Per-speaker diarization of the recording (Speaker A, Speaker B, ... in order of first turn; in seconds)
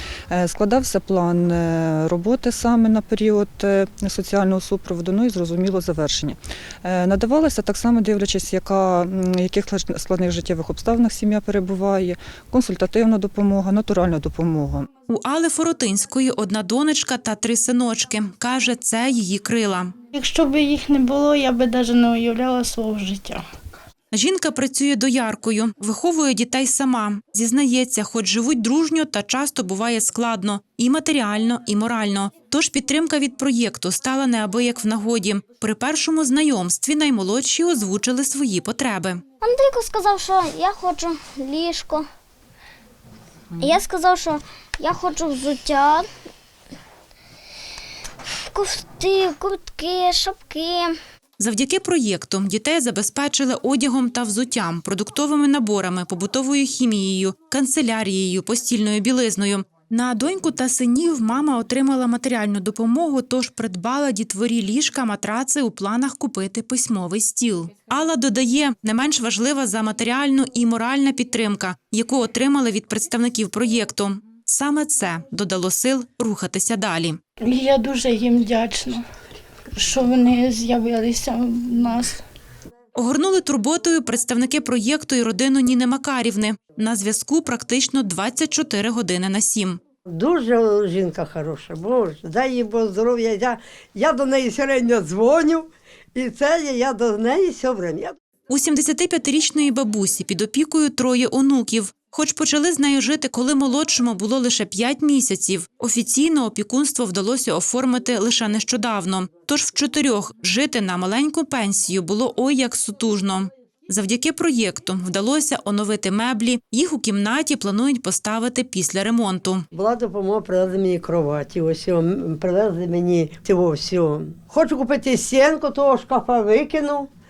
Speaker A: 0.3-14.9
Speaker B: 15.1-19.9, 24.1-39.2, 51.4-77.2, 82.9-89.8, 98.5-119.6
Speaker C: 20.1-23.5, 77.4-79.1, 79.7-82.2
Speaker D: 39.4-42.0, 43.6-46.1, 48.5-50.9
Speaker E: 90.1-98.2, 119.7-127.1